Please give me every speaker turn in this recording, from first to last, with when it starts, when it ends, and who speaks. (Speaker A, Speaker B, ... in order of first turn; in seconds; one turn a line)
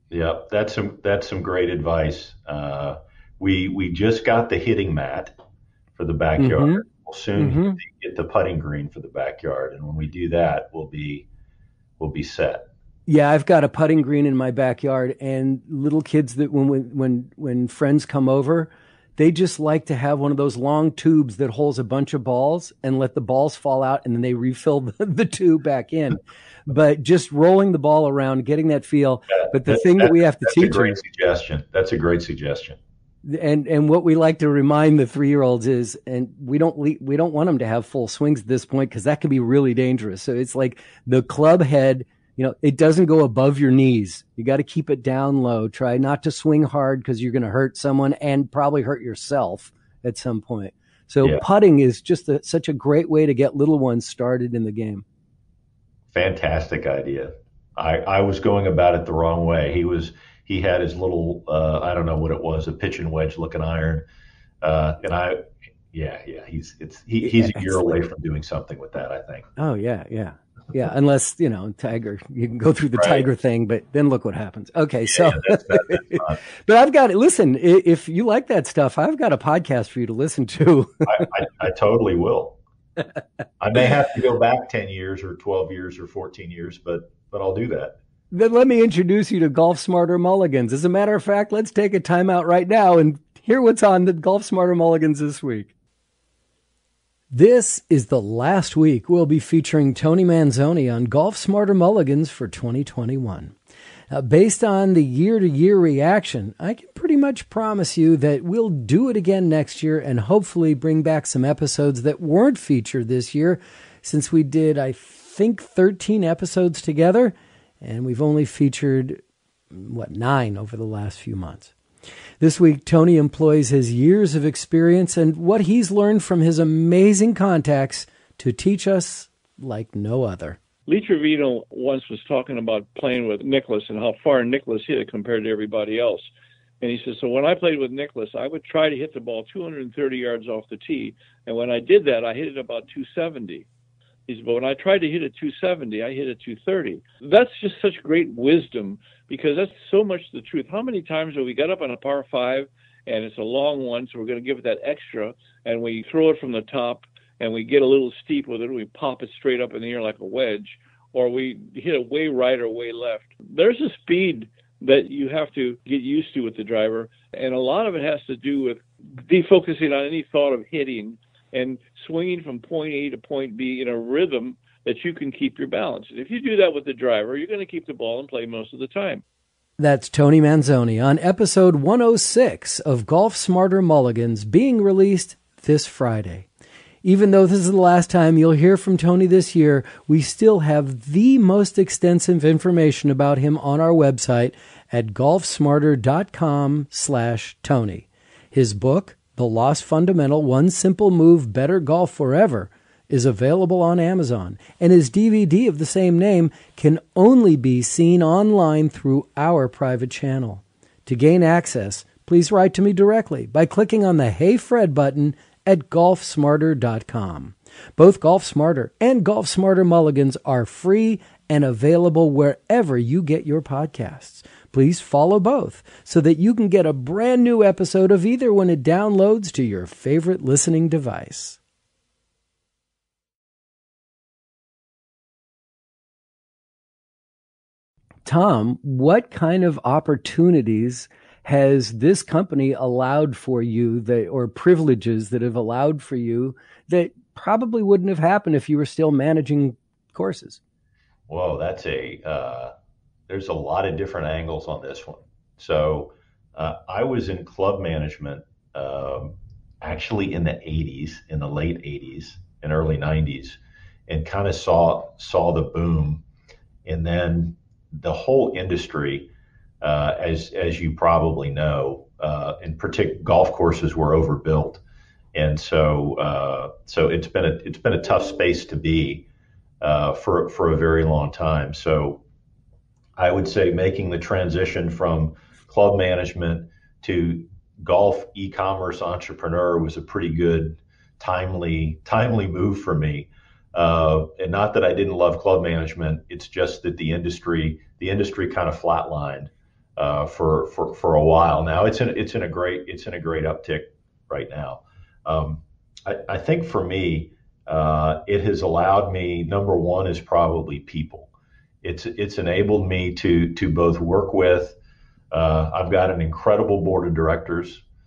Speaker A: 0.1-5.3
Speaker A: 6.0-11.3
Speaker B: 6.4-6.8
Speaker B: 7.4-7.8
Speaker A: 12.0-12.7
Speaker B: 13.1-31.0
Speaker A: 29.3-32.8
Speaker B: 33.2-55.0
Speaker A: 56.1-64.0
Speaker A: 64.6-69.5
Speaker B: 67.2-67.8
Speaker B: 69.6-81.3
Speaker A: 73.0-73.2
Speaker A: 75.1-76.4
Speaker A: 81.1-82.6
Speaker A: 83.6-88.0
Speaker B: 88.3-95.7
Speaker B: 97.3-103.5
Speaker B: 104.1-121.7
Speaker B: 122.4-130.6
Speaker C: 130.9-136.3
Speaker C: 136.8-143.7
Speaker C: 144.3-179.2
Speaker B: 179.8-186.5
Speaker B: 187.0-231.6
Speaker B: 238.3-250.6
Speaker A: 251.3-252.7
Speaker A: 253.3-266.2
Speaker A: 266.9-269.3
Speaker A: 269.8-274.8
Speaker A: 275.4-279.2
Speaker A: 279.8-282.2
Speaker A: 283.2-311.3
Speaker A: 311.8-314.8
Speaker A: 315.3-317.8